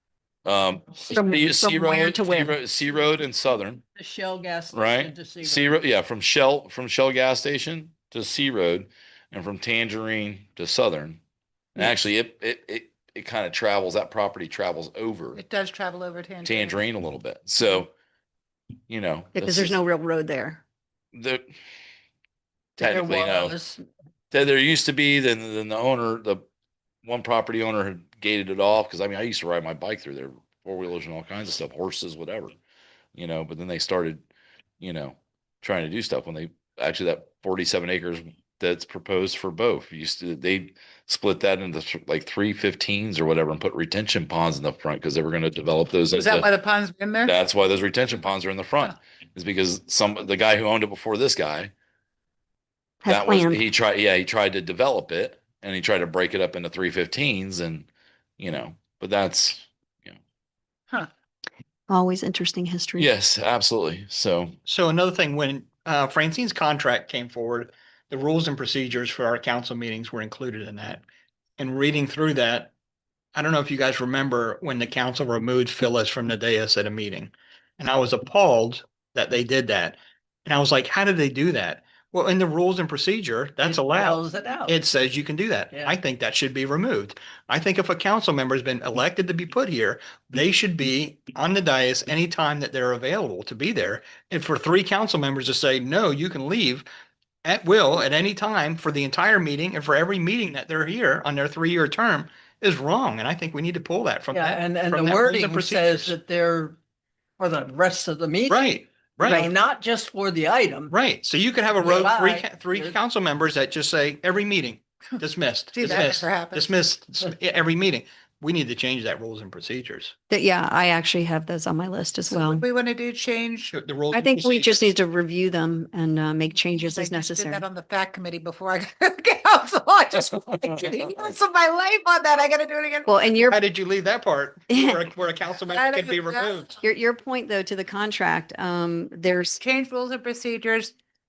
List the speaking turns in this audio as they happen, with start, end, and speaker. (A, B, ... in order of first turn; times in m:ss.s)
0:00.4-0:03.8 A
0:01.1-0:02.6 B
0:03.9-0:05.8 C
0:04.7-0:11.2 A
0:11.8-0:15.4 A
0:15.3-0:16.8 D
0:16.4-0:17.9 A
0:18.9-0:19.8 A
0:19.3-0:20.6 B
0:21.1-0:21.4 A
0:22.8-0:23.5 A
0:22.8-0:23.8 C
0:24.3-0:26.4 A
0:27.0-0:32.5 A
0:33.1-0:34.2 A
0:34.8-0:46.5 A
0:46.1-0:47.4 D
0:47.2-0:51.7 A
0:53.0-0:53.6 B
0:53.1-0:57.9 A
0:58.4-1:00.2 A
1:01.9-1:03.1 B
1:03.0-1:04.5 A
1:04.6-1:11.0 E
1:11.6-1:12.7 E
1:13.3-1:36.8 E
1:23.6-1:24.8 C
1:25.7-1:26.0 C
1:37.4-1:46.1 E
1:44.3-1:46.8 C
1:47.4-1:48.6 C
1:48.5-1:49.5 E
1:49.2-1:50.9 C
1:50.9-2:00.1 E
1:51.8-1:52.9 C
1:55.7-1:56.7 D
2:00.3-2:02.6 B
2:02.3-2:03.7 D
2:03.7-2:04.9 E
2:04.1-2:07.6 B
2:06.8-2:13.2 D
2:13.1-2:13.6 B
2:13.5-2:16.8 E
2:14.7-2:15.0 B
2:15.7-2:16.6 D
2:16.8-2:19.6 B
2:19.6-2:20.9 D